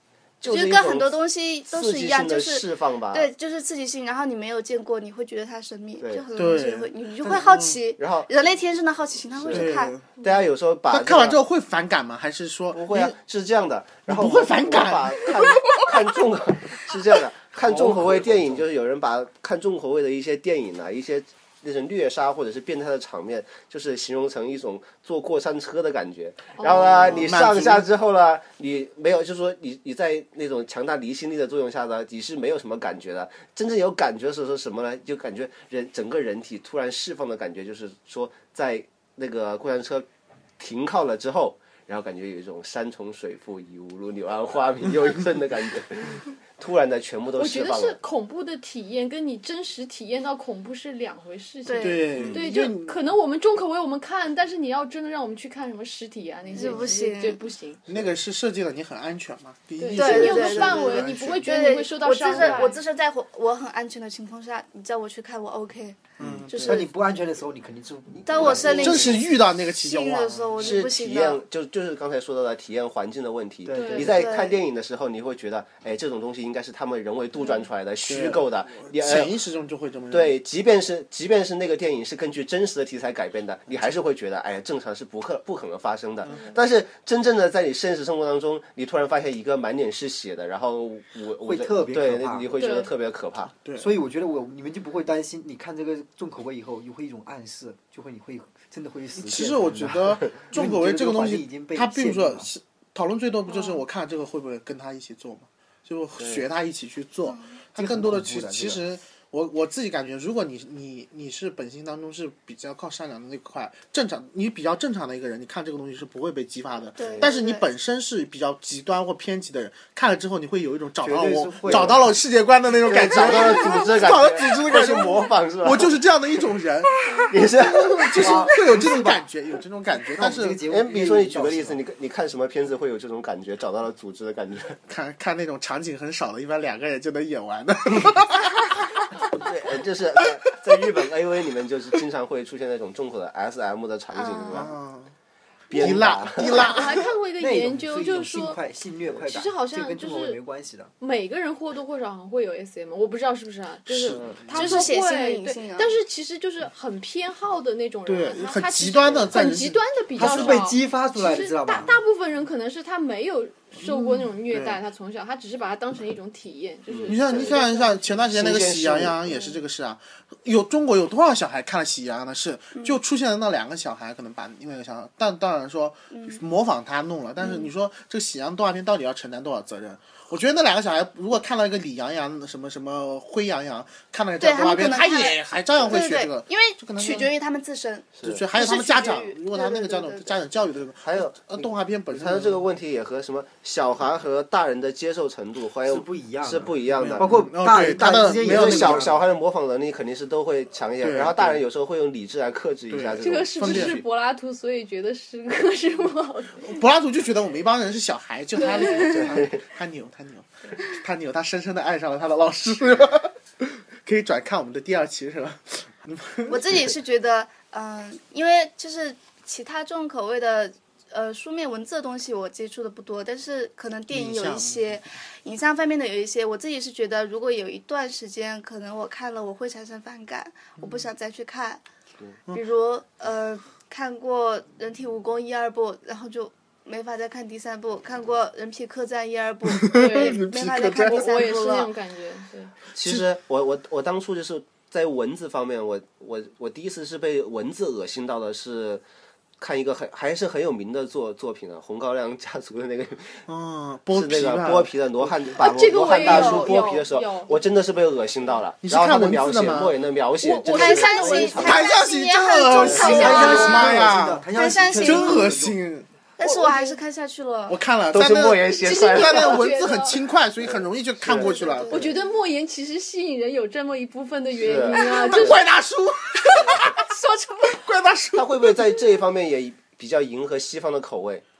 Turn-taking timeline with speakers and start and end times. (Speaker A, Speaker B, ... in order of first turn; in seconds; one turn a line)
Speaker A: 0.4-3.3
Speaker B: 0.4-9.9
Speaker A: 6.0-6.2
Speaker C: 6.3-7.8
Speaker D: 7.2-7.6
Speaker A: 8.0-8.3
Speaker A: 9.3-11.3
Speaker C: 9.5-10.1
Speaker C: 10.9-13.2
Speaker A: 12.7-40.0
Speaker C: 14.1-15.9
Speaker C: 17.6-18.6
Speaker E: 26.6-26.9
Speaker C: 26.6-27.9
Speaker A: 40.6-48.0
Speaker E: 47.4-57.8
Speaker B: 51.6-52.0
Speaker C: 51.8-53.0
Speaker C: 56.5-56.8
Speaker B: 56.5-57.4
Speaker C: 57.9-61.6
Speaker E: 59.8-62.8
Speaker B: 59.9-66.9
Speaker C: 62.3-62.6
Speaker C: 66.2-66.8
Speaker D: 66.6-69.2
Speaker B: 68.2-71.4
Speaker A: 68.4-69.2
Speaker C: 68.8-70.7
Speaker A: 70.5-79.3
Speaker D: 73.6-74.2
Speaker E: 73.7-74.2
Speaker B: 74.0-74.6
Speaker C: 78.0-80.4
Speaker A: 80.1-93.5
Speaker D: 91.4-92.5
Speaker E: 92.5-92.9
Speaker C: 93.5-93.9
Speaker D: 93.8-102.5
Speaker C: 99.2-130.6
Speaker B: 103.5-103.8
Speaker A: 106.2-106.4
Speaker B: 107.2-107.5
Speaker D: 107.8-108.8
Speaker B: 117.0-117.6
Speaker A: 117.0-117.3
Speaker D: 121.0-122.1
Speaker A: 121.7-122.0
Speaker A: 122.8-126.5
Speaker D: 123.1-123.5
Speaker A: 127.3-128.6
Speaker D: 128.2-129.2
Speaker D: 130.1-131.8
Speaker A: 130.7-134.8
Speaker C: 134.9-139.0
Speaker A: 139.3-144.7
Speaker C: 140.2-140.5
Speaker B: 144.1-144.6
Speaker C: 144.5-145.1
Speaker A: 145.7-146.8
Speaker C: 145.7-147.1
Speaker E: 146.4-148.6
Speaker D: 147.4-150.9
Speaker E: 149.2-150.4
Speaker E: 151.0-168.2
Speaker C: 153.9-154.2
Speaker A: 153.9-154.4
Speaker B: 154.5-155.9
Speaker C: 158.1-160.6
Speaker A: 159.1-159.3
Speaker D: 160.1-161.9
Speaker C: 164.5-164.8
Speaker A: 166.9-167.6
Speaker C: 167.1-187.3
Speaker A: 168.3-169.2
Speaker B: 176.1-176.4
Speaker B: 177.4-177.7
Speaker B: 184.4-190.4
Speaker A: 185.8-186.1
Speaker A: 188.2-188.4
Speaker C: 188.2-192.6
Speaker A: 191.0-204.0
Speaker D: 195.8-199.1
Speaker C: 196.9-199.2
Speaker C: 201.0-201.6
Speaker C: 202.9-204.0
Speaker E: 203.2-206.8
Speaker C: 206.6-216.6
Speaker E: 208.6-208.9
Speaker A: 208.9-209.6
Speaker B: 216.5-231.8
Speaker C: 224.1-225.0
Speaker C: 230.8-231.1
Speaker B: 232.5-241.9
Speaker C: 239.7-241.3
Speaker E: 239.9-240.4
Speaker E: 241.0-242.7
Speaker A: 242.9-249.0
Speaker A: 249.6-253.4
Speaker C: 253.5-255.3
Speaker A: 254.1-262.0
Speaker E: 255.6-257.6
Speaker B: 256.2-256.7
Speaker C: 258.8-259.9
Speaker E: 260.4-261.8
Speaker B: 260.6-265.5
Speaker C: 261.6-266.1
Speaker A: 262.8-263.8
Speaker E: 262.9-263.8
Speaker D: 263.1-265.8
Speaker B: 266.4-267.8
Speaker E: 266.4-267.0
Speaker C: 267.7-272.1
Speaker A: 268.1-269.7
Speaker E: 268.8-270.2
Speaker A: 270.6-271.5
Speaker B: 271.3-272.1
Speaker E: 271.9-275.6
Speaker A: 274.6-275.6
Speaker C: 274.8-277.1
Speaker A: 276.5-276.9
Speaker E: 276.9-277.8
Speaker C: 277.7-278.7
Speaker A: 278.3-281.4